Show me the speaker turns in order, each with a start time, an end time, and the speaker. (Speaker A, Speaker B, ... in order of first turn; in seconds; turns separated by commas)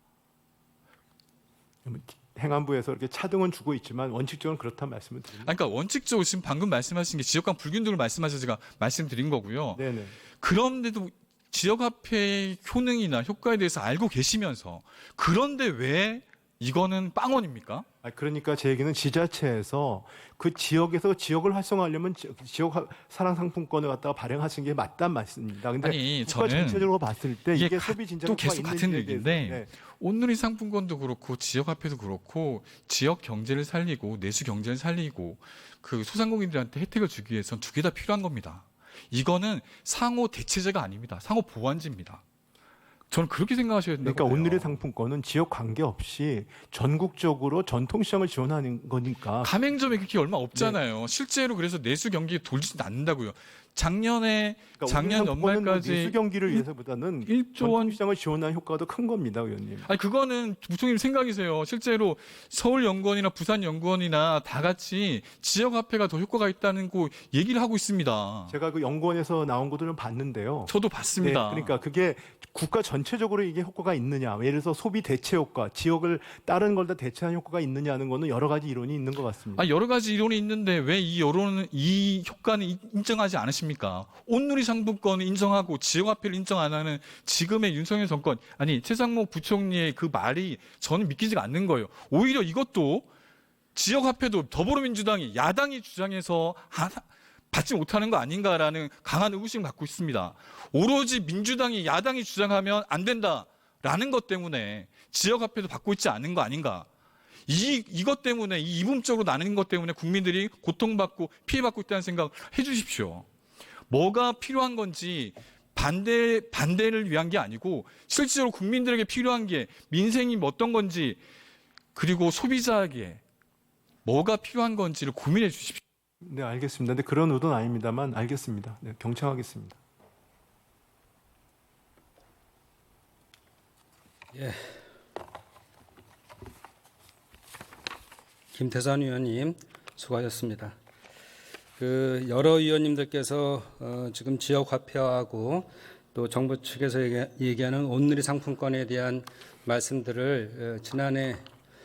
Speaker A: 1.9-5.5, Speaker B: 5.4-9.8, Speaker A: 9.8-10.2, Speaker B: 10.4-17.9, Speaker A: 18.0-29.7, Speaker B: 25.8-26.9, Speaker B: 27.5-42.2, Speaker B: 43.1-44.8, Speaker A: 44.0-49.5, Speaker B: 49.4-56.7, Speaker A: 50.5-50.8, Speaker A: 54.8-59.9, Speaker B: 57.2-58.0, Speaker B: 59.8-68.5, Speaker A: 68.5-79.7, Speaker B: 70.7-71.8, Speaker B: 79.5-93.1, Speaker B: 93.8-106.9, Speaker B: 107.5-113.3, Speaker B: 113.9-121.2, Speaker B: 122.0-123.2, Speaker B: 124.0-125.8, Speaker A: 126.2-129.8, Speaker C: 134.3-134.6, Speaker C: 138.5-140.8, Speaker C: 141.8-151.4